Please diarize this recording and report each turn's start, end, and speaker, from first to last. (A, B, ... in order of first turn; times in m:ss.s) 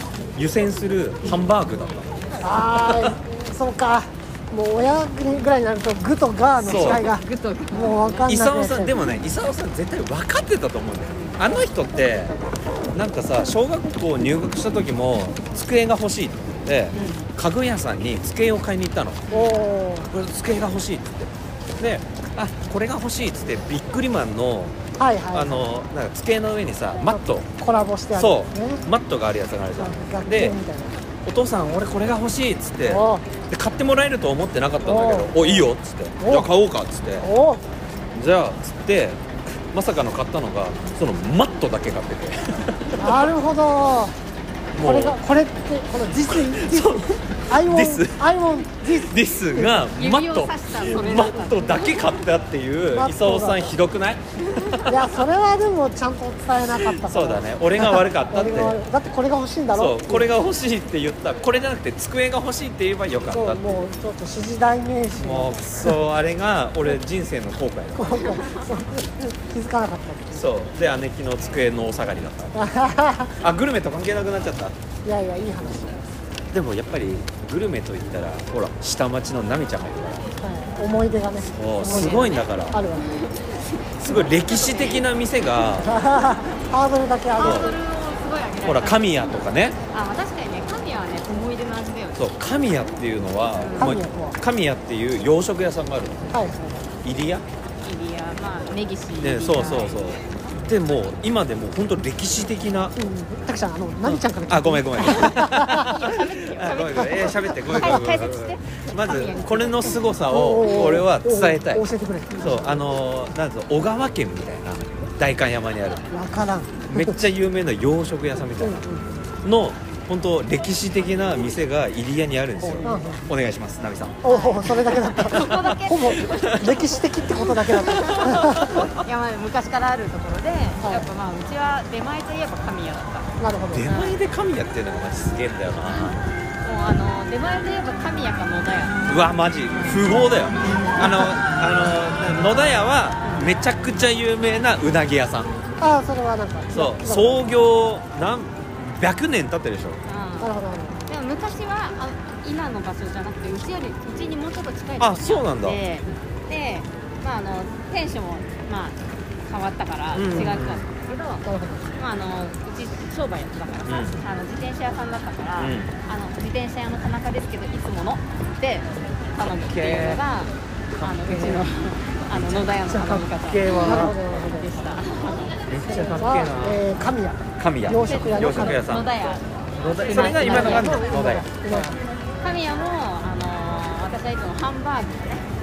0:00.3-0:02.2 A
0:02.4-0:09.1 B
0:02.7-0:03.0 A
0:06.6-0:07.0 A
0:06.7-0:08.3 C
0:08.2-0:12.3 A
0:12.9-0:19.3 A
0:16.9-0:17.3 C
0:19.3-0:19.6 C
0:19.3-0:20.1 B
0:20.1-0:24.8 A
0:25.0-0:25.7 B
0:25.3-0:27.5 A
0:27.0-0:28.8 B
0:28.1-0:30.6 A
0:29.8-0:31.0 B
0:31.2-0:37.3 A
0:32.8-0:33.3 B
0:34.8-0:36.5 B
0:37.2-0:37.6 B
0:38.1-0:43.3 A
0:42.9-0:44.1 B
0:44.7-0:45.2 A
0:44.8-0:49.9 B
0:46.3-0:48.2 A
0:48.8-0:55.0 A
0:49.9-0:52.3 C
0:52.9-0:53.8 B
0:54.8-1:00.3 B
0:56.8-0:58.8 A
0:59.7-1:03.8 A
1:03.3-1:06.1 B
1:05.2-1:08.4 A
1:07.9-1:10.5 B
1:10.3-1:12.6 A
1:12.5-1:13.4 B
1:13.4-1:14.8 A
1:15.0-1:16.0 B
1:16.5-1:20.3 A
1:20.4-1:23.4 B
1:21.5-1:22.8 A
1:21.8-1:25.0 C
1:24.0-1:26.0 A
1:24.0-1:24.3 B
1:25.8-1:27.8 B
1:27.3-1:29.3 C
1:27.4-1:27.7 A
1:28.6-1:29.8 A
1:29.9-1:32.2 C
1:32.1-1:36.4 A
1:33.5-1:34.0 C
1:33.7-1:34.4 B
1:36.3-1:36.9 B
1:37.0-1:37.4 A
1:37.8-1:40.2 C
1:39.2-1:43.0 A
1:42.9-1:46.0 B
1:44.0-1:56.1 A
1:45.0-1:50.1 C
1:46.9-1:48.0 B
1:50.3-1:52.8 B
1:50.6-1:51.0 C
1:56.1-1:57.2 B
1:56.9-1:58.8 A
1:58.6-1:59.3 B
1:59.4-2:04.2 A
2:02.6-2:03.3 B
2:04.2-2:08.8 B
2:04.2-2:08.4 C
2:04.8-2:05.6 A
2:06.4-2:06.8 A
2:08.0-2:09.0 A
2:09.0-2:13.3 C
2:10.8-2:11.1 B
2:13.4-2:14.0 B
2:13.7-2:16.2 A
2:13.8-2:14.2 C
2:16.0-2:19.1 C
2:19.1-2:25.5 A
2:19.7-2:20.0 C
2:23.2-2:23.5 C
2:25.8-2:27.5 B
2:26.7-2:30.0 A
2:30.0-2:41.4 C
2:30.4-2:31.0 B
2:35.0-2:35.8 A
2:40.1-2:40.8 A
2:41.4-2:42.0 B
2:42.0-2:55.6 C
2:43.8-2:44.2 A
2:45.6-2:45.9 A
2:49.6-2:50.2 A
2:51.0-2:51.6 A
2:52.3-2:54.2 A
2:53.7-2:54.8 B
2:55.6-2:56.8 A
2:55.8-2:58.8 B
2:57.6-2:59.1 A
2:58.0-3:01.1 C
2:59.7-3:01.6 A
3:00.1-3:02.0 B
3:01.7-3:05.5 C